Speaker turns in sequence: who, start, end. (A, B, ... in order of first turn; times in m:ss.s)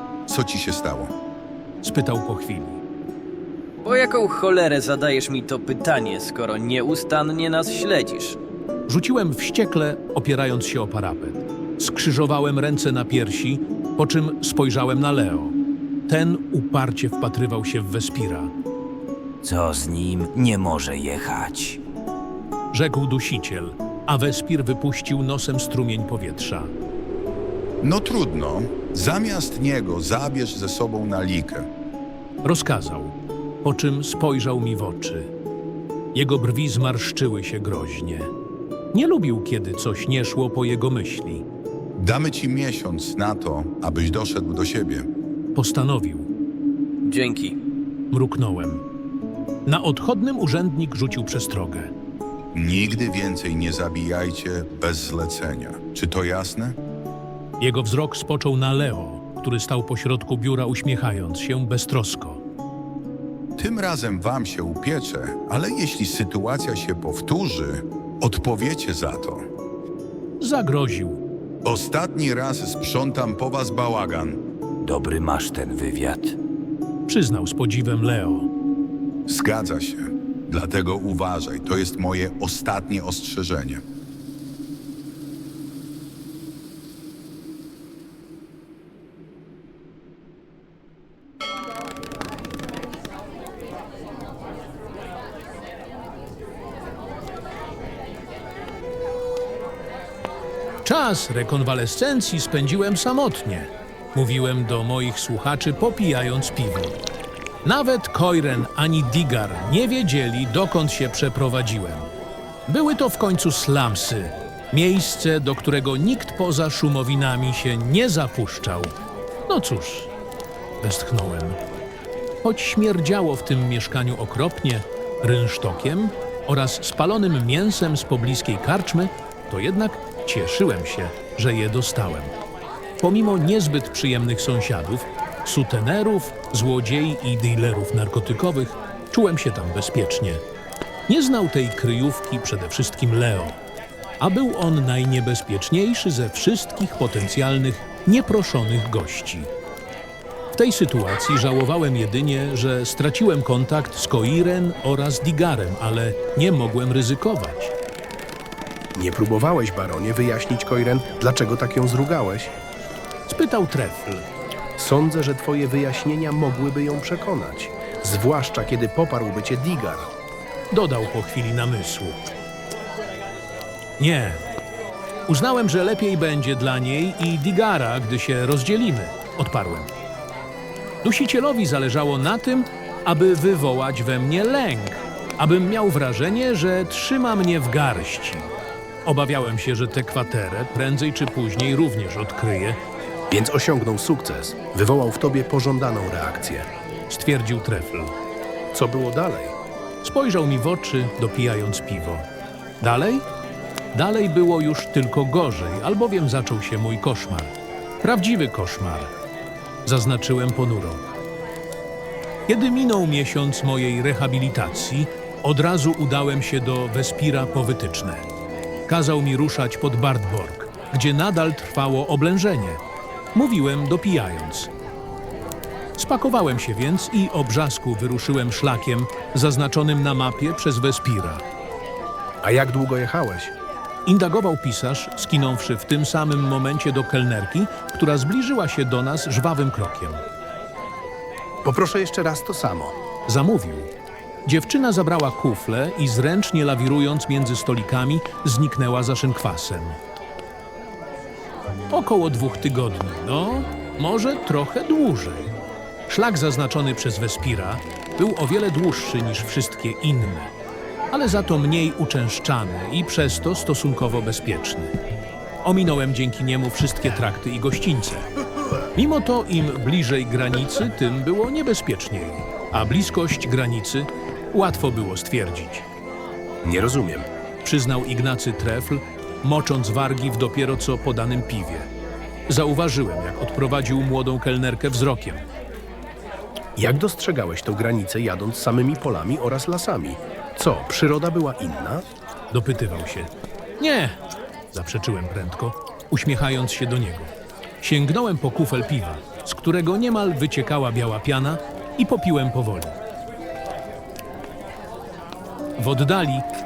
0:00.3-0:01.1 A
0:01.8-0:02.8 B
0:03.8-0:08.4 C
0:08.9-0:15.6 B
0:16.1-0:18.5 B
0:19.4-0:21.8 D
0:22.7-0:26.7 B
0:27.8-0:31.7 A
0:32.4-0:35.3 B
0:36.1-0:38.3 B
0:38.9-0:41.4 B
0:42.0-0:45.1 A
0:45.5-0:46.3 B
0:47.0-0:47.6 C
0:48.1-0:48.8 B
0:49.6-0:51.9 B
0:52.5-0:56.8 A
0:57.6-1:02.4 B
1:03.6-1:09.4 A
1:10.4-1:11.2 B
1:11.6-1:14.4 A
1:14.8-1:16.4 D
1:17.1-1:18.5 B
1:19.3-1:23.8 A
1:40.8-1:47.0 B
1:47.6-1:52.1 B
1:52.7-1:58.9 B
1:59.5-2:00.1 B
2:00.8-2:01.6 B
2:02.4-2:12.3 B
2:13.0-2:20.4 B
2:21.1-2:23.6 B
2:24.2-2:29.5 B
2:30.6-2:37.7 B
2:39.0-2:42.5 E
2:43.3-2:44.2 B
2:44.8-2:50.1 E
2:50.7-2:52.3 B
2:54.0-2:54.4 B
2:55.3-2:59.9 B
3:01.0-3:08.5 B
3:09.0-3:12.8 B
3:13.3-3:16.6 E
3:17.1-3:18.1 B
3:18.7-3:19.5 E
3:20.0-3:22.2 B
3:22.8-3:23.2 B
3:23.9-3:29.1 B
3:29.8-3:31.0 B
3:32.5-3:38.2 B
3:38.9-3:42.8 B
3:43.3-3:44.7 B
3:46.0-3:51.4 B
3:52.4-3:53.5 E
3:54.0-4:00.2 B
4:01.6-4:02.9 E
4:03.3-4:03.9 B
4:04.4-4:10.0 B
4:11.9-4:15.5 B
4:16.1-4:20.5 B
4:21.1-4:24.9 B
4:25.6-4:28.2 B
4:28.9-4:35.8 B
4:36.6-4:37.3 E
4:37.6-4:41.9 B
4:42.5-4:45.4 B
4:46.8-4:52.0 E
4:52.5-4:54.2 B
4:54.7-5:03.0 B
5:05.8-5:06.4 B